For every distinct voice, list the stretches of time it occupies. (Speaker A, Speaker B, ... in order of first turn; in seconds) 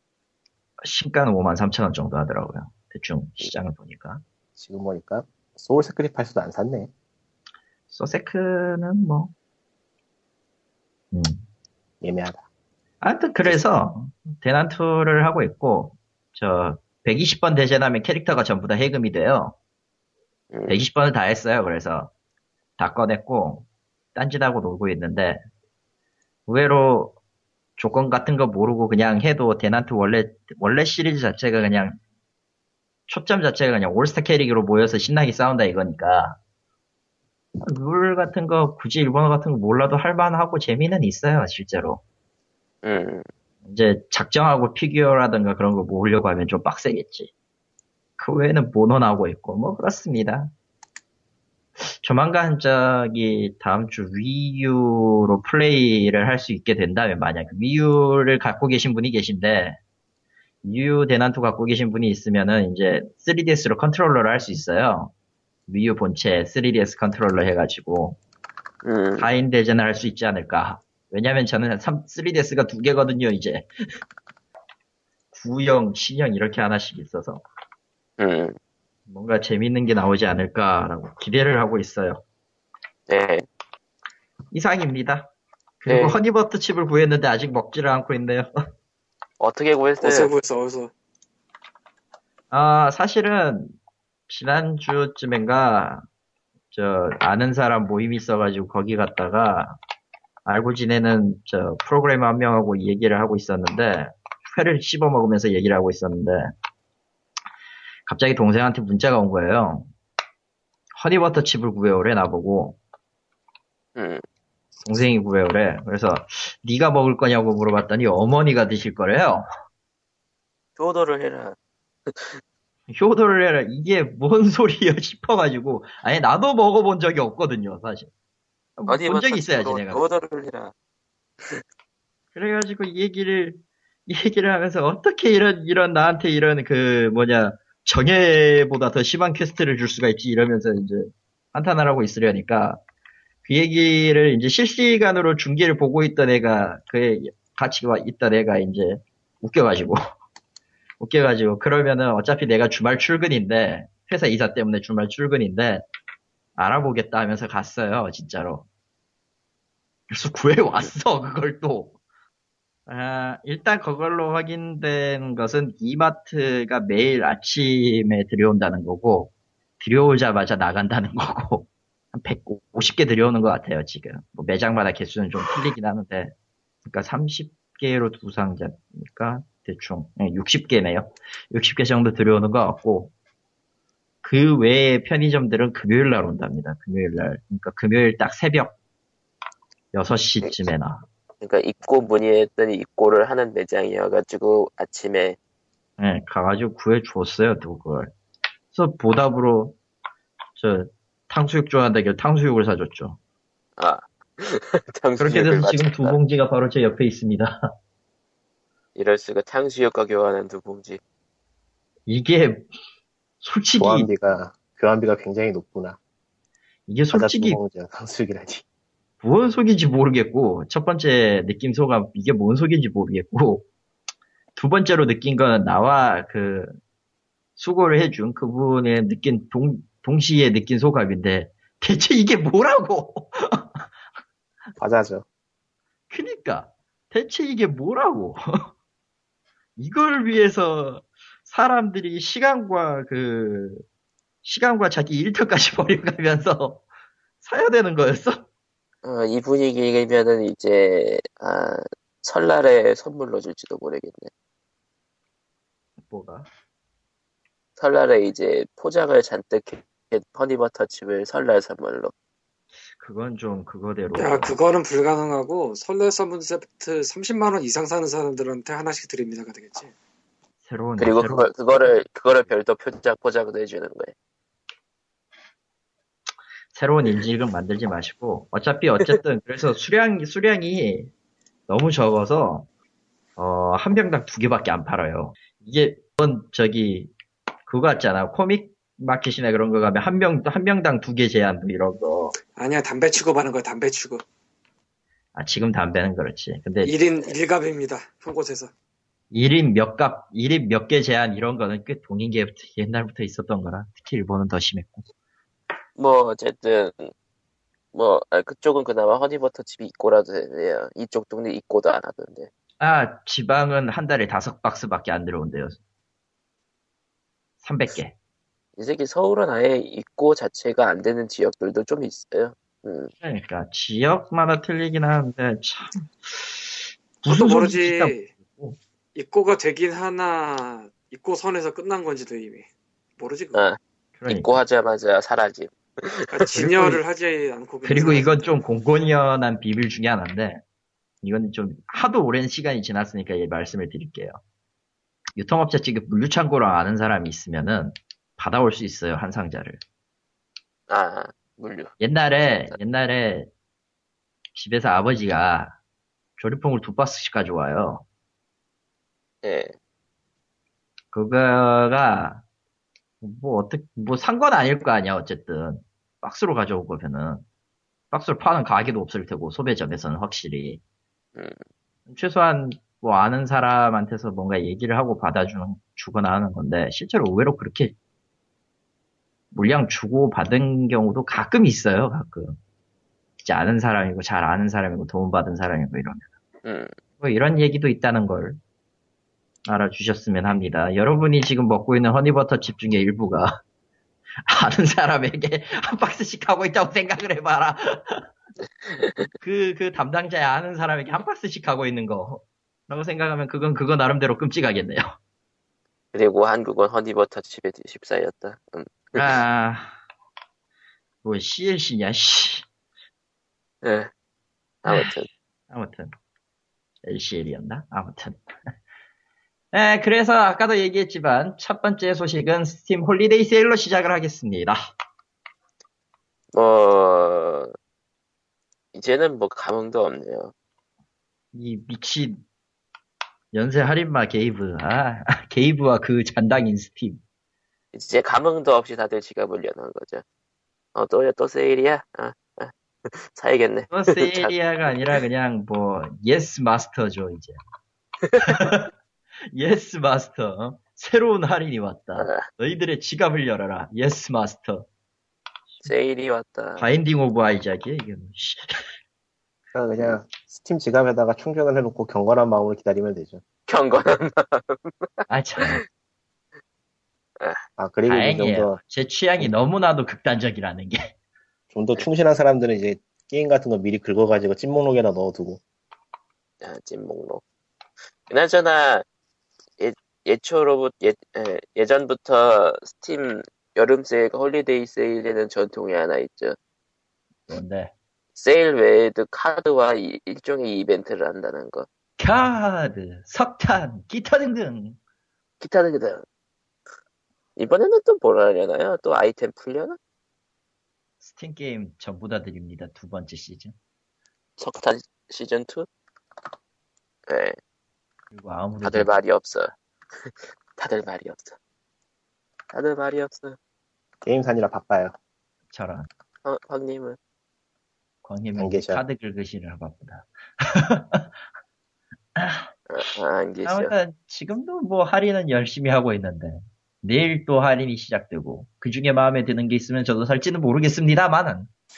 Speaker A: 0.8-4.2, 7.9-9.3, 11.1-11.4, 13.0-19.6, 20.7-22.1, 22.8-25.4, 26.5-27.2, 27.8-32.0, 33.1-36.4, 37.6-42.0, 43.6-47.3, 48.2-50.5, 51.8-59.8, 60.6-65.1, 65.7-68.2, 69.2-73.7, 75.3-77.4, 79.1-82.2, 84.5-88.5, 92.5-93.8, 94.3-96.0, 96.7-99.8, 100.4-106.5, 108.1-109.9, 111.0-112.8, 114.8-119.4, 122.9-128.1, 128.8-130.0, 132.3-142.8, 143.4-150.0, 151.0-155.9, 156.6-158.7, 160.1-162.0, 162.9-176.3, 176.8-183.1, 184.2-188.7, 189.9-191.1, 196.0-198.1, 198.7-199.8, 200.6-203.2, 205.2-207.6, 212.1-212.7, 213.4-214.1, 216.9-217.6, 219.2-223.7, 224.6-226.7, 227.6-233.9, 236.1-238.7, 239.8-243.8, 244.4-246.8, 247.4-248.4, 256.1-256.5, 263.0-264.5, 270.6-271.5, 276.7-281.1, 281.7-282.7, 283.4-287.1, 287.7-292.4, 295.3-297.1, 299.3-305.1, 312.8-315.8, 317.6-318.1, 323.2-328.8, 334.2-334.6, 336.5-337.0, 337.8-340.6, 341.2-344.4, 345.4-349.8, 352.0-353.5, 354.5-355.8, 356.4-358.0, 361.1-362.4, 363.2-367.4, 368.1-370.8, 372.1-377.9, 379.5-382.6, 383.4-386.3, 387.2-388.6, 389.6-393.6, 394.5-398.2, 399.4-405.1, 409.1-410.0, 411.2-412.6, 415.7-416.1, 417.0-418.7, 419.7-424.8, 431.5-432.4, 433.5-437.2, 443.9-447.6, 448.4-448.9, 449.5-454.9, 456.8-458.9, 465.3-465.8, 468.1-471.1, 487.5-487.9, 492.2-495.0, 501.2-503.8, 508.3-509.1, 515.7-516.1, 518.2-521.3, 522.4-522.7, 523.6-531.7
Speaker B: 4.6-6.9, 12.0-12.4, 213.8-216.0, 217.1-218.6, 234.8-235.2, 459.7-463.4, 467.8-468.8, 471.7-475.6, 514.2-515.1, 518.6-519.0
Speaker C: 20.5-20.8, 42.8-43.2, 68.8-69.3, 78.2-78.6, 83.1-83.5, 85.9-86.2, 89.4-90.3, 114.0-114.2, 120.8-121.5, 122.1-122.4, 128.9-130.7, 191.4-195.4, 203.8-206.2, 208.9-211.0, 249.0-254.3, 257.8-262.1, 271.0-274.1, 306.0-307.1, 307.9-312.5, 318.8-323.1, 333.5-336.4, 350.9-351.9, 359.4-359.7, 386.6-386.9, 398.9-399.3, 406.1-409.4, 413.8-414.1, 414.8-415.3, 426.5-427.7, 428.9-430.5, 437.9-440.2, 440.9-445.1, 448.2-448.7, 452.1-452.4, 455.8-456.9, 463.7-465.8, 476.6-477.4, 478.3-479.0, 479.8-486.6, 488.4-491.9, 495.6-496.2, 497.6-500.0, 504.6-505.9, 507.3-507.6, 508.8-511.6, 512.7-513.6, 516.4-517.2, 522.9-523.9
Speaker D: 90.0-90.9, 264.2-269.9, 292.6-294.2, 296.8-298.7, 327.3-328.3, 329.1-332.7, 333.2-333.6, 336.3-338.6